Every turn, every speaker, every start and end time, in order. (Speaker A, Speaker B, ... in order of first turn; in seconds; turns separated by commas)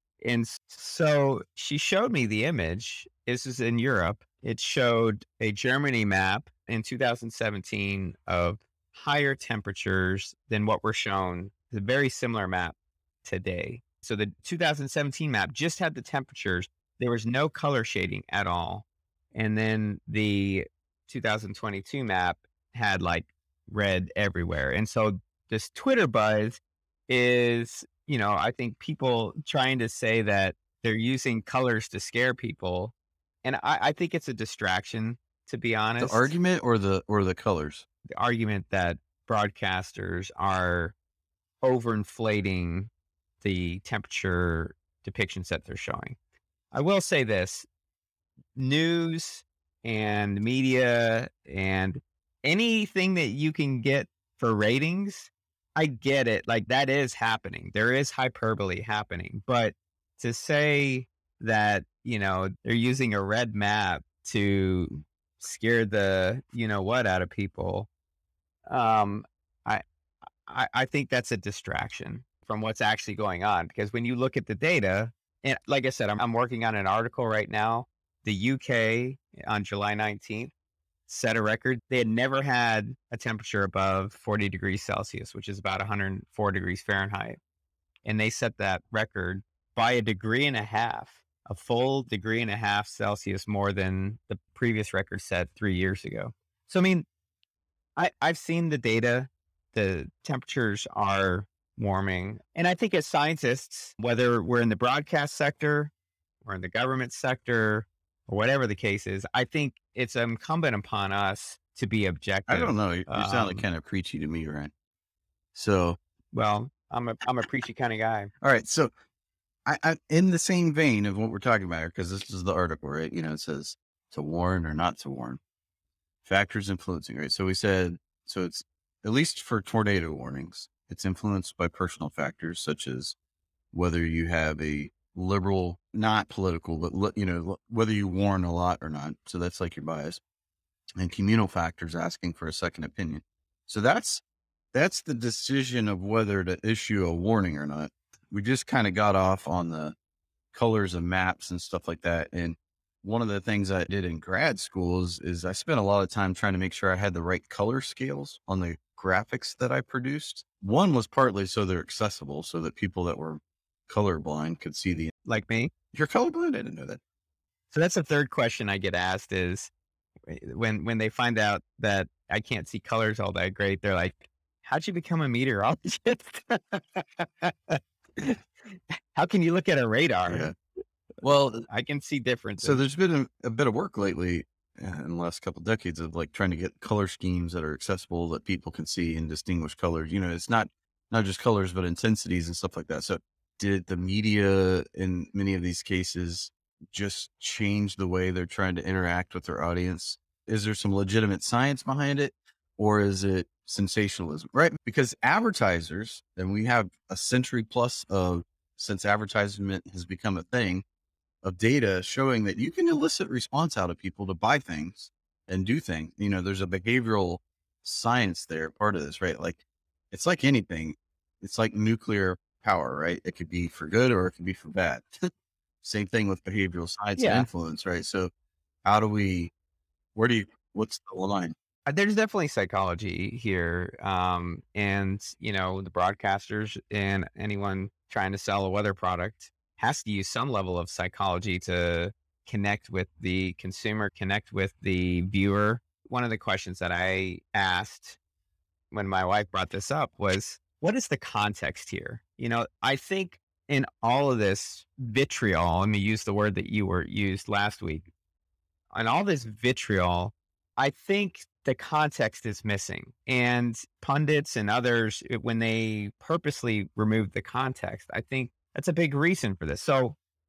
Speaker A: 0.2-36.4, Speaker B: 36.0-37.9, Speaker A: 38.1-41.0, Speaker A: 41.6-42.9, Speaker A: 43.4-46.2, Speaker A: 46.7-47.7, Speaker A: 48.6-67.9, Speaker A: 68.7-69.8, Speaker A: 70.5-80.5, Speaker A: 81.1-87.4, Speaker A: 88.0-97.1, Speaker A: 98.0-105.9, Speaker A: 106.4-113.7, Speaker B: 112.5-114.7, Speaker B: 115.5-116.0, Speaker A: 116.3-118.3, Speaker B: 118.4-118.9, Speaker B: 119.7-125.4, Speaker B: 126.2-133.2, Speaker B: 133.7-140.2, Speaker B: 141.0-150.0, Speaker B: 150.5-165.1, Speaker A: 165.3-165.7, Speaker B: 165.9-167.0, Speaker A: 167.7-169.7, Speaker A: 170.3-178.4, Speaker A: 179.2-180.5, Speaker B: 180.3-180.5, Speaker B: 181.2-181.7, Speaker A: 181.7-182.8, Speaker B: 182.6-210.8, Speaker B: 211.4-225.3, Speaker B: 225.8-228.3, Speaker A: 227.2-227.5, Speaker B: 228.8-229.5, Speaker B: 230.2-231.6, Speaker A: 231.9-248.2, Speaker A: 248.9-258.1, Speaker A: 258.9-270.2